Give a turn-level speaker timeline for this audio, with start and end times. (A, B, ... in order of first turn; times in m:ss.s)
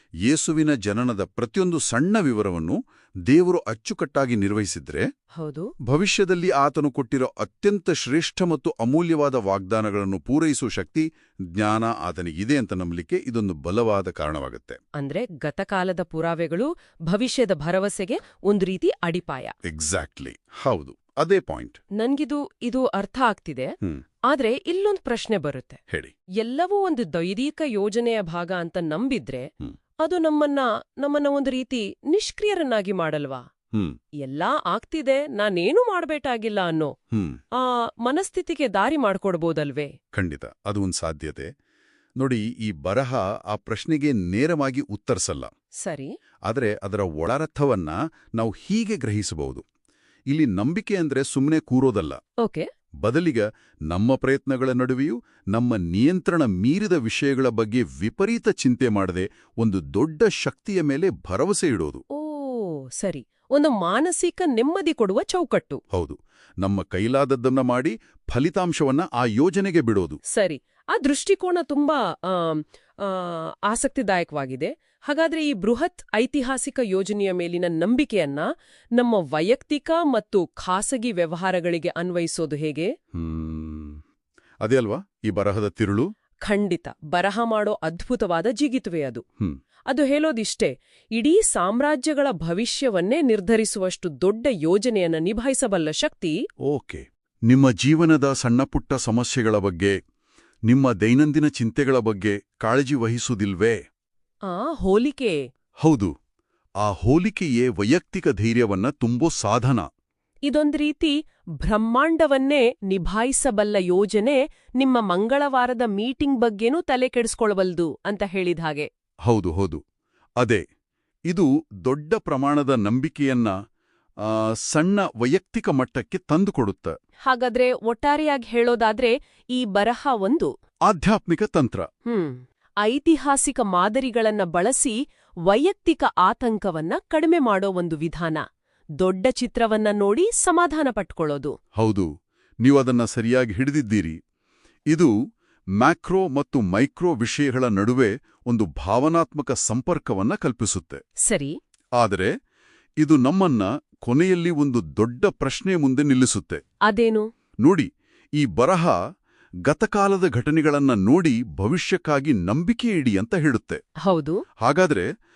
0:00.2-0:05.1 A
0:05.4-0:05.7 B
0:05.8-0:14.8 A
0:15.0-0:19.5 B
0:19.6-0:21.8 A
0:22.0-0:23.7 B
0:24.3-0:25.8 B
0:26.4-0:29.5 B
0:30.0-0:33.4 B
0:34.2-0:36.9 B
0:37.1-0:37.4 A
0:37.6-0:39.9 B
0:40.1-0:41.5 A
0:42.2-0:45.5 A
0:45.8-0:46.1 B
0:46.4-0:49.6 A
0:50.3-0:52.2 A
0:53.0-1:02.0 A
1:02.1-1:05.8 B
1:05.9-1:10.2 A
1:10.3-1:18.4 B
1:18.9-1:22.9 B
1:23.1-1:24.0 A
1:24.6-1:26.1 A
1:26.4-1:29.2 B
1:29.9-1:36.3 B
1:36.6-1:40.0 A
1:40.7-1:43.8 A
1:44.5-1:45.4 B
1:45.8-1:46.1 A
1:46.8-1:49.8 A
1:50.4-1:58.9 B
1:59.2-1:59.8 A
2:01.3-2:03.5 A
2:04.2-2:06.9 A
2:07.2-2:10.5 B
2:10.8-2:11.8 A
2:12.1-2:15.0 B
2:15.5-2:18.4 B
2:19.0-2:21.5 B
2:21.8-2:22.1 A
2:22.6-2:24.2 A
2:25.8-2:31.0 A
2:31.2-2:31.5 B
2:32.0-2:32.3 A
2:33.0-2:36.6 A
2:36.9-2:37.2 B
2:37.6-2:39.0 A
2:39.6-2:43.8 A
2:44.0-2:44.4 B
2:44.6-2:45.0 A